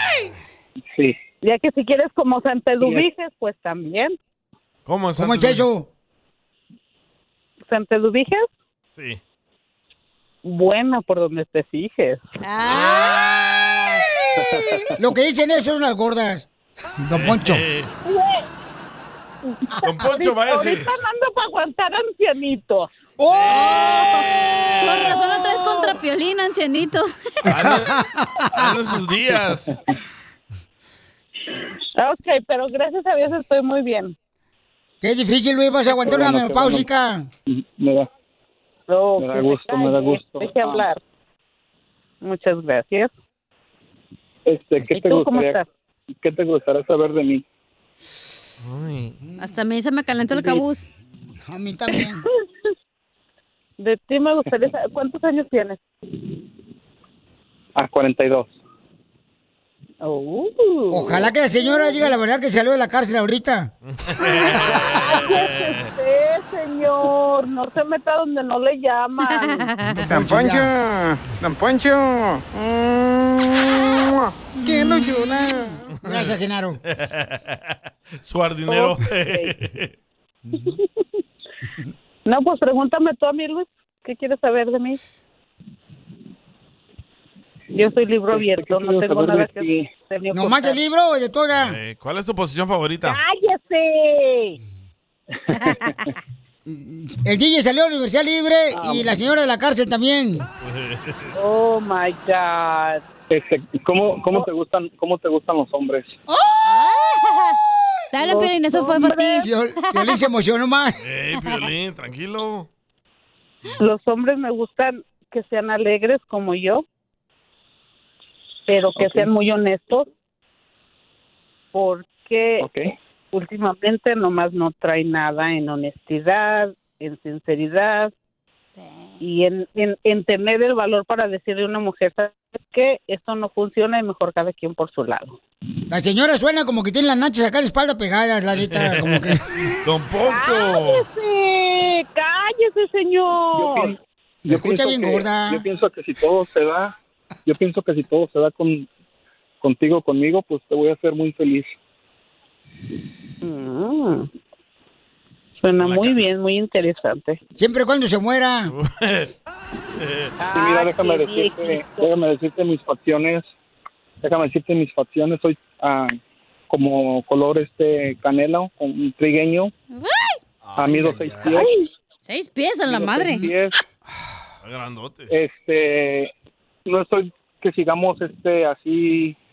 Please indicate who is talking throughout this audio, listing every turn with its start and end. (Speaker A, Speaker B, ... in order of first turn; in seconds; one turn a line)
Speaker A: 1.4-4.2
Speaker B: 2.8-3.0
Speaker C: 4.8-5.7
Speaker D: 5.2-5.9
Speaker A: 7.7-8.5
Speaker C: 8.9-9.2
Speaker A: 10.4-12.3
Speaker E: 12.4-13.2
Speaker C: 12.7-14.1
Speaker D: 15.0-16.4
Speaker D: 17.0-17.6
Speaker C: 17.1-17.9
Speaker A: 18.0-18.4
Speaker A: 19.4-22.9
Speaker C: 19.8-20.9
Speaker D: 23.2-23.7
Speaker C: 23.3-25.2
Speaker E: 23.5-24.3
Speaker E: 24.8-27.1
Speaker C: 27.4-27.9
Speaker D: 27.4-28.8
Speaker C: 28.5-29.8
Speaker A: 31.9-34.1
Speaker D: 35.0-37.3
Speaker B: 36.0-36.9
Speaker B: 37.5-38.1
Speaker A: 38.9-41.0
Speaker B: 39.2-40.8
Speaker A: 42.2-43.1
Speaker B: 44.5-45.6
Speaker A: 44.8-45.6
Speaker B: 46.2-47.4
Speaker C: 48.6-49.2
Speaker E: 49.4-50.9
Speaker B: 50.3-50.6
Speaker D: 51.4-52.2
Speaker A: 53.8-55.8
Speaker B: 57.8-58.5
Speaker A: 60.0-62.0
Speaker D: 60.9-63.7
Speaker C: 63.9-65.9
Speaker A: 64.2-69.7
Speaker E: 69.3-69.9
Speaker D: 69.9-70.7
Speaker F: 70.0-75.8
Speaker D: 74.6-75.3
Speaker C: 76.0-76.3
Speaker D: 76.0-76.8
Speaker C: 76.9-79.9
Speaker A: 78.7-79.5
Speaker A: 82.2-85.0
Speaker A: 87.7-90.8
Speaker B: 88.3-89.9
Speaker D: 90.3-91.8
Speaker C: 91.6-93.2
Speaker A: 93.0-94.6
Speaker B: 95.5-96.0
Speaker D: 96.7-100.5
Speaker B: 98.7-99.1
Speaker C: 100.6-101.3
Speaker A: 101.3-103.0
Speaker B: 103.3-106.2
Speaker E: 106.7-107.6
Speaker E: 108.1-110.2
Speaker A: 108.2-109.5
Speaker D: 109.4-111.0
Speaker C: 111.0-112.7
Speaker A: 113.8-116.8
Speaker A: 118.7-120.0
Speaker B: 119.0-119.3
Speaker A: 121.7-122.6
Speaker B: 122.6-122.9
Speaker A: 123.3-128.1
Speaker E: 128.8-129.1
Speaker A: 129.2-135.4
Speaker D: 135.9-139.7
Speaker C: 138.7-141.0
Speaker A: 140.2-143.9
Speaker B: 143.5-146.9
Speaker D: 144.4-145.6
Speaker B: 147.4-148.9
Speaker B: 149.6-151.8
Speaker A: 153.4-154.3
Speaker A: 155.6-157.4
Speaker C: 155.8-156.2
Speaker D: 157.6-158.7
Speaker C: 158.7-159.3
Speaker C: 160.0-160.3
Speaker A: 160.4-162.1
Speaker B: 160.5-163.5
Speaker B: 164.2-166.2
Speaker B: 166.7-169.7
Speaker E: 169.9-170.4
Speaker B: 170.7-171.7
Speaker E: 172.2-173.5
Speaker B: 172.9-173.8
Speaker C: 174.6-175.3
Speaker B: 175.3-176.3
Speaker B: 176.8-179.3